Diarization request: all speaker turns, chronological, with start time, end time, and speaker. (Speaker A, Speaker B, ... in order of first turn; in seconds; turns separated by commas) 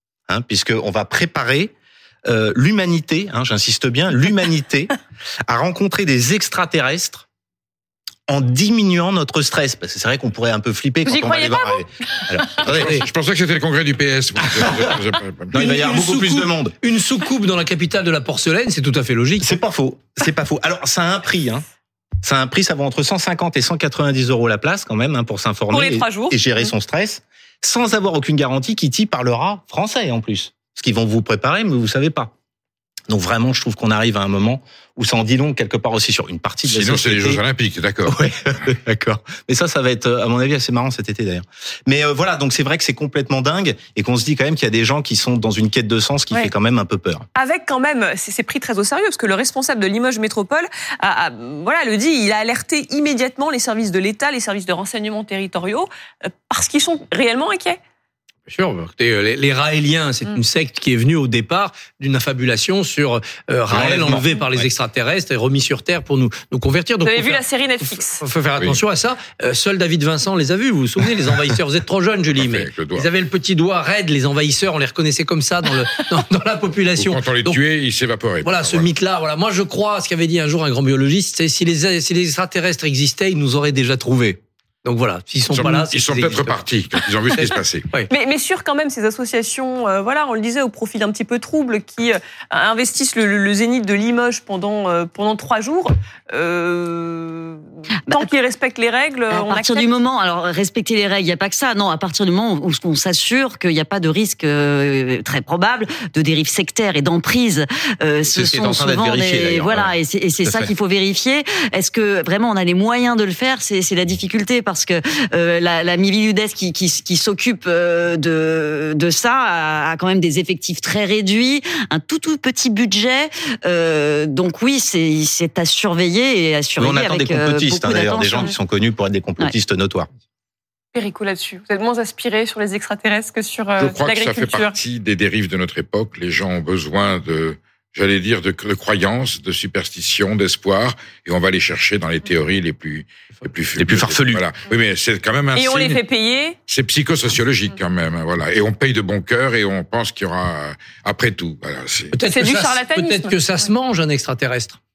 Speaker A: 0.3-1.7, Speaker A: 2.3-4.9, Speaker A: 5.5-7.2, Speaker A: 8.3-13.0, Speaker B: 11.1-11.8, Speaker C: 12.6-15.5, Speaker D: 12.7-13.1, Speaker A: 14.4-14.9, Speaker A: 15.5-16.8, Speaker D: 15.5-19.6, Speaker A: 19.4-21.6, Speaker A: 22.2-32.3, Speaker B: 25.7-26.7, Speaker A: 33.1-37.4, Speaker C: 36.6-38.2, Speaker A: 38.0-47.2, Speaker B: 47.3-57.8, Speaker D: 58.5-77.6, Speaker A: 63.7-64.3, Speaker B: 67.0-68.2, Speaker C: 72.3-73.1, Speaker C: 77.0-78.9, Speaker D: 78.4-86.7, Speaker C: 85.5-87.9, Speaker B: 88.1-99.9, Speaker E: 99.3-128.5, Speaker A: 108.2-110.7, Speaker A: 126.8-130.1, Speaker B: 130.9-134.8, Speaker C: 133.8-146.0, Speaker A: 143.8-144.4, Speaker B: 145.5-146.6, Speaker C: 146.7-152.1, Speaker D: 152.1-154.8, Speaker B: 152.3-153.3